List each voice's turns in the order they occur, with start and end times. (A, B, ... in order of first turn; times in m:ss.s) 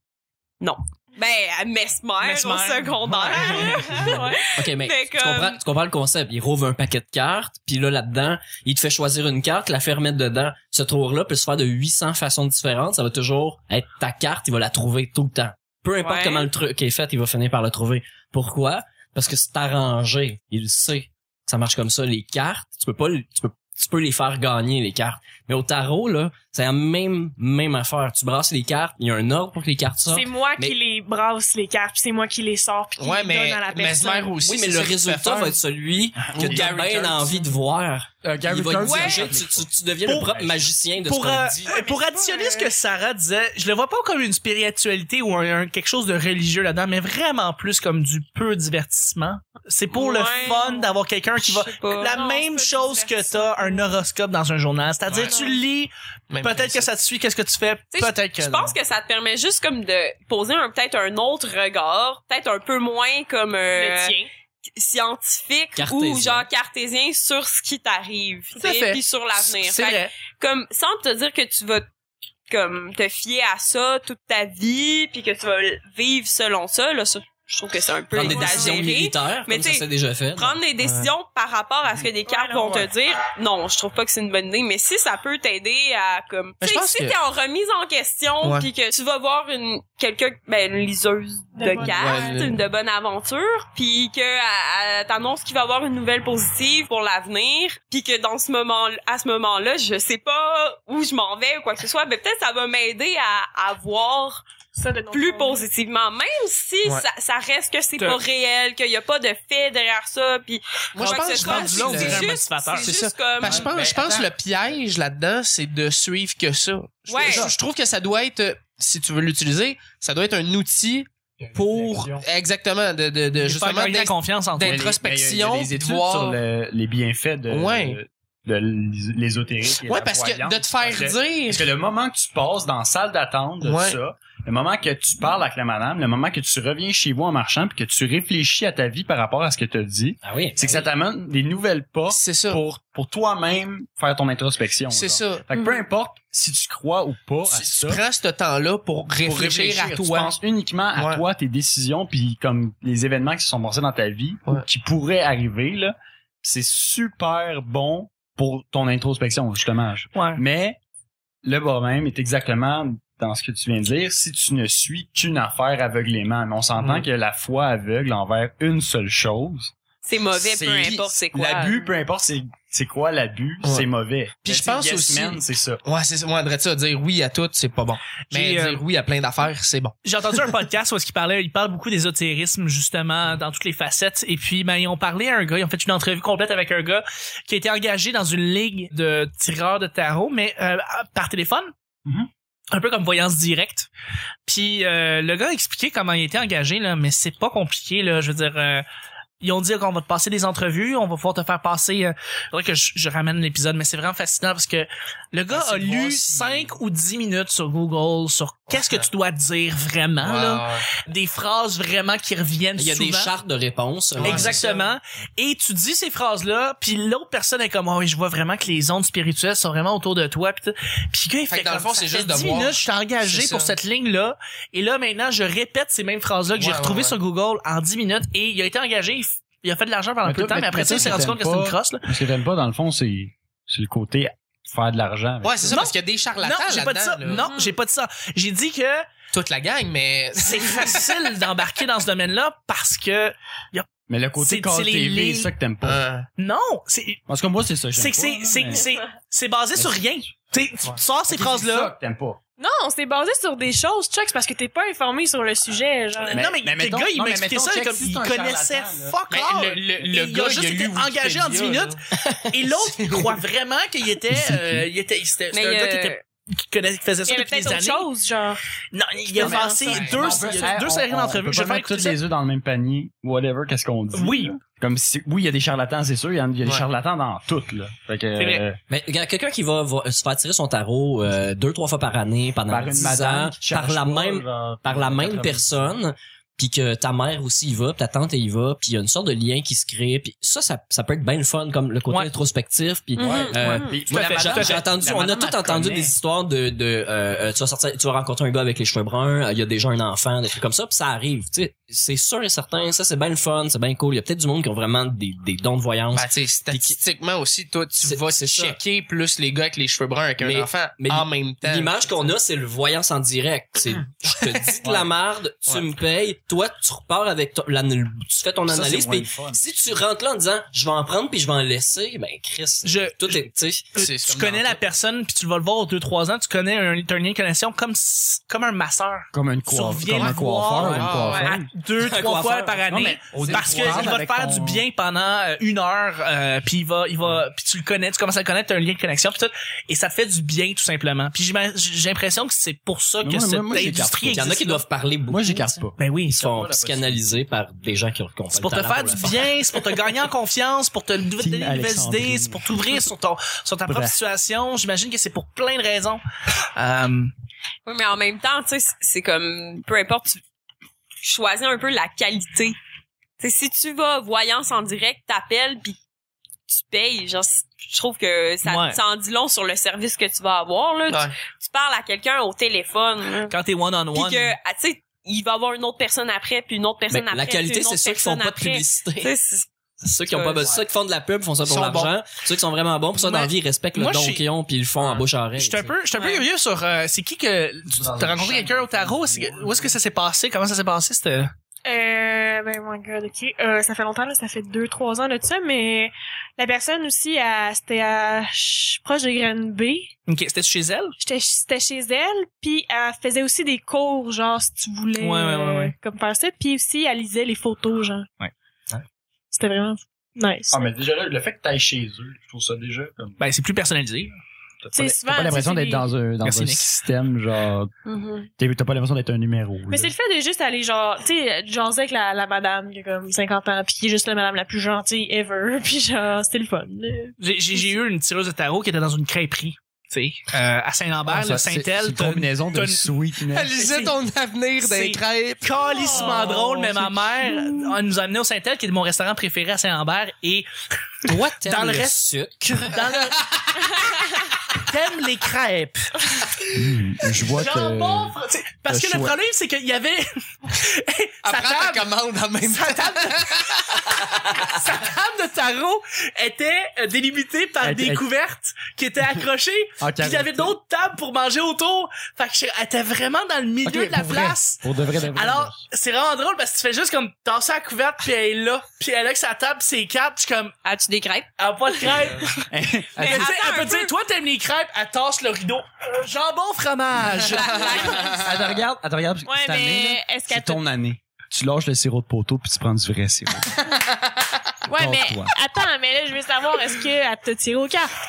0:00.6-0:05.6 A
0:02.2-0:03.8 B
0:03.4-0:04.4 C
0:04.5-0:30.8 D
0:16.0-0:16.5 A
0:30.1-0:34.4 C
0:33.0-0:35.6 E
0:34.4-0:41.6 D
0:36.2-0:36.7 F
0:36.3-0:37.4 E
0:38.2-0:39.7 F
0:38.8-0:39.3 A
0:40.1-0:58.8 B
0:40.3-0:40.6 F
0:41.7-0:42.7 C
0:49.9-0:52.2 A
0:52.0-0:54.0 C
0:55.2-0:55.6 C
0:56.3-0:56.9 E
0:57.9-1:04.2 A
1:03.7-1:04.3 C
1:04.8-1:11.9 A
1:05.8-1:06.5 D
1:08.6-1:10.1 B
1:12.5-1:44.4 A
1:18.1-1:20.6 D
1:18.2-1:18.8 C
1:20.8-1:21.1 E
1:22.2-1:22.9 C
1:26.6-1:27.2 E
1:28.4-1:28.7 E
1:31.6-1:32.5 C
1:31.8-1:32.6 E
1:44.7-1:45.7 C
1:45.1-1:53.6 A
1:50.9-2:06.4 E
1:51.0-1:52.9 B
1:53.4-1:54.3 F
1:57.1-1:57.5 A
2:01.5-2:02.3 F
2:03.4-2:04.8 B
2:04.6-2:28.0 F
2:07.5-2:08.0 E
2:09.9-2:11.7 E
2:13.6-2:14.0 E
2:20.2-2:20.9 D
2:22.1-2:22.6 E
2:24.9-2:25.4 E
2:27.5-2:30.4 E
2:29.2-2:40.8 F
2:31.0-2:31.2 E
2:40.2-2:40.4 B
2:41.4-2:49.7 F
2:46.8-2:47.0 E
2:50.0-2:51.9 A
2:50.3-2:55.8 F
2:53.6-2:53.9 E
2:54.4-3:00.0 E
2:58.3-2:58.8 B
3:00.0-3:11.7 B
3:12.7-3:13.9 B
3:14.5-3:18.8 B
3:19.4-3:33.3 B
3:25.5-3:26.8 E
3:28.7-3:29.0 E
3:30.2-3:30.8 E
3:32.8-3:34.7 D
3:34.2-3:35.0 E
3:34.2-3:52.0 B
3:41.5-3:43.7 E
3:46.6-3:47.2 E
3:50.2-3:55.8 F
3:50.9-3:51.2 E
3:55.4-3:57.5 E
3:55.7-3:59.1 B
3:57.3-3:57.8 A
3:59.3-4:01.1 E
4:00.4-4:03.9 B
4:04.1-4:06.0 F
4:04.4-4:05.5 B
4:05.8-4:06.3 E
4:06.4-4:07.2 B
4:07.3-4:08.8 F
4:08.0-4:11.9 B
4:09.8-4:10.0 F
4:11.3-4:12.4 F
4:12.6-4:16.4 C
4:16.3-4:28.1 B
4:16.3-4:19.2 F
4:19.3-4:22.0 E
4:23.0-4:23.3 E
4:24.3-4:24.9 F
4:25.4-4:25.8 E
4:25.5-4:26.2 A
4:27.3-4:28.6 C
4:28.9-4:32.2 B
4:29.3-4:30.7 C
4:29.4-4:38.8 F
4:29.8-4:30.2 E
4:34.1-4:34.5 B
4:38.4-4:38.6 B
4:38.9-5:07.0 D
4:42.7-4:46.0 F
4:53.2-4:54.0 A
4:53.2-4:56.2 F
4:53.6-4:54.8 B
5:06.1-5:12.2 E
5:08.0-5:08.8 D
5:10.4-5:23.9 D
5:14.3-5:15.1 E
5:18.7-5:19.6 F
5:22.8-5:44.8 B
5:24.0-5:24.8 E
5:29.3-5:31.7 F
5:30.8-5:31.5 E
5:31.3-5:31.6 A
5:32.0-5:33.5 D
5:32.9-5:34.8 F
5:33.3-5:34.1 E
5:43.2-5:44.5 F
5:44.3-5:49.5 D
5:45.3-5:47.3 F
5:46.0-5:46.4 B
5:48.5-5:56.2 B
5:51.4-5:52.6 F
5:53.9-5:54.2 F
5:56.8-5:57.3 B
5:57.9-6:00.4 A
6:01.2-6:02.8 A
6:03.4-6:06.0 A
6:06.7-6:13.5 A
6:08.6-6:09.0 B
6:11.1-6:11.4 E
6:13.5-6:14.5 B
6:14.1-6:19.7 A
6:17.1-6:19.3 D
6:20.0-6:26.0 D
6:20.3-6:20.8 A
6:21.6-6:22.2 E
6:23.1-6:24.4 B
6:25.6-6:31.5 B
6:27.9-6:30.0 F
6:31.9-6:40.1 C
6:40.3-6:41.2 B
6:41.2-6:48.3 C
6:45.2-6:45.9 B
6:49.5-6:50.8 C
6:50.7-6:53.4 F
6:53.4-6:54.4 B
6:54.8-6:57.9 F
6:54.9-6:56.1 C
6:56.4-6:56.8 B
6:58.1-6:58.5 A
6:58.6-7:00.1 F
6:59.9-7:07.4 C
7:07.4-7:13.1 B
7:11.2-7:13.7 F
7:13.5-7:15.8 E
7:13.8-7:14.2 B
7:14.8-7:20.7 B
7:15.8-7:16.7 C
7:21.3-7:22.9 D
7:21.3-7:24.1 B
7:24.7-7:26.7 B
7:26.7-7:28.4 F
7:27.4-7:32.1 B
7:28.9-7:29.4 F
7:31.4-7:33.9 E
7:32.7-7:50.8 B
7:37.8-7:38.3 F
7:40.0-7:40.8 F
7:43.8-7:45.8 F
7:50.8-7:51.5 A
7:51.6-7:52.7 B
7:52.7-7:53.5 F
7:53.2-7:54.1 A
7:53.2-7:58.2 B
7:57.4-7:58.6 A
7:58.4-8:04.0 F
7:59.5-8:00.8 C
8:04.9-8:08.1 C
8:04.9-8:05.5 F